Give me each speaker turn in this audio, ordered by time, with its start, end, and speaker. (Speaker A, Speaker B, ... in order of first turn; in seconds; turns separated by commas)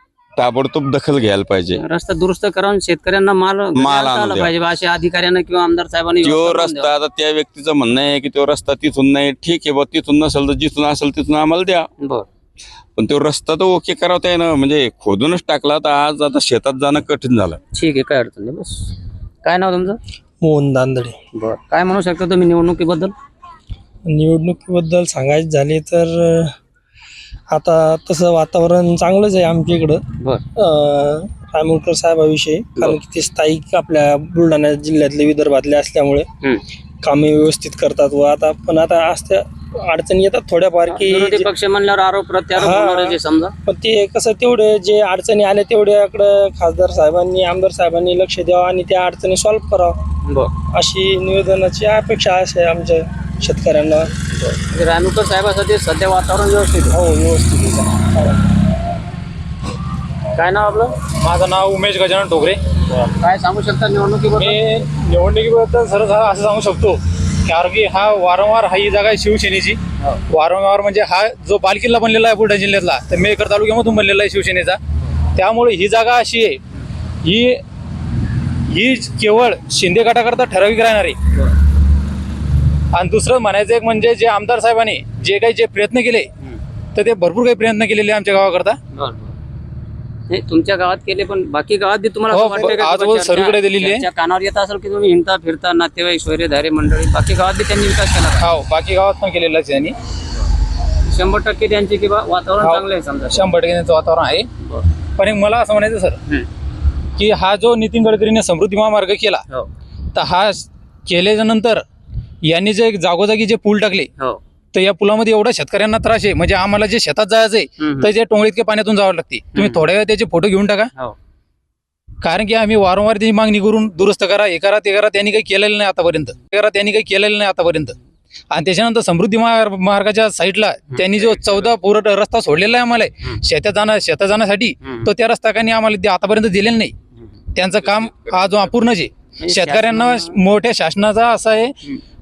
Speaker A: 0.4-1.8, Speaker B: 1.7-6.9, Speaker A: 3.8-4.5, Speaker A: 6.2-11.9, Speaker B: 12.0-12.3, Speaker A: 13.0-17.6, Speaker B: 17.7-18.9, Speaker B: 19.4-20.0, Speaker C: 20.4-21.2, Speaker B: 21.3-23.1, Speaker C: 24.1-26.5, Speaker C: 27.5-30.0, Speaker C: 30.6-36.3, Speaker C: 37.0-41.5, Speaker B: 40.9-43.5, Speaker C: 42.5-50.0, Speaker B: 50.3-50.5, Speaker C: 50.7-54.1, Speaker B: 54.3-57.0, Speaker C: 56.9-58.3, Speaker B: 60.3-61.0, Speaker D: 61.2-62.6, Speaker B: 62.9-64.6, Speaker D: 64.4-74.8, Speaker D: 75.3-76.6, Speaker D: 77.2-77.6, Speaker D: 78.7-81.2, Speaker D: 82.9-86.3, Speaker D: 87.0-88.8, Speaker B: 88.9-89.4, Speaker B: 90.3-98.5, Speaker D: 92.3-94.1, Speaker D: 98.4-100.0, Speaker B: 101.0-103.5, Speaker D: 102.6-104.5, Speaker B: 104.6-104.9, Speaker D: 105.2-106.2, Speaker D: 107.2-109.4, Speaker D: 110.1-111.8, Speaker D: 112.4-114.1, Speaker D: 114.7-120.9, Speaker B: 117.8-118.1, Speaker B: 119.5-119.8, Speaker D: 122.2-128.0, Speaker D: 128.5-136.9, Speaker D: 137.6-141.8, Speaker B: 139.4-140.4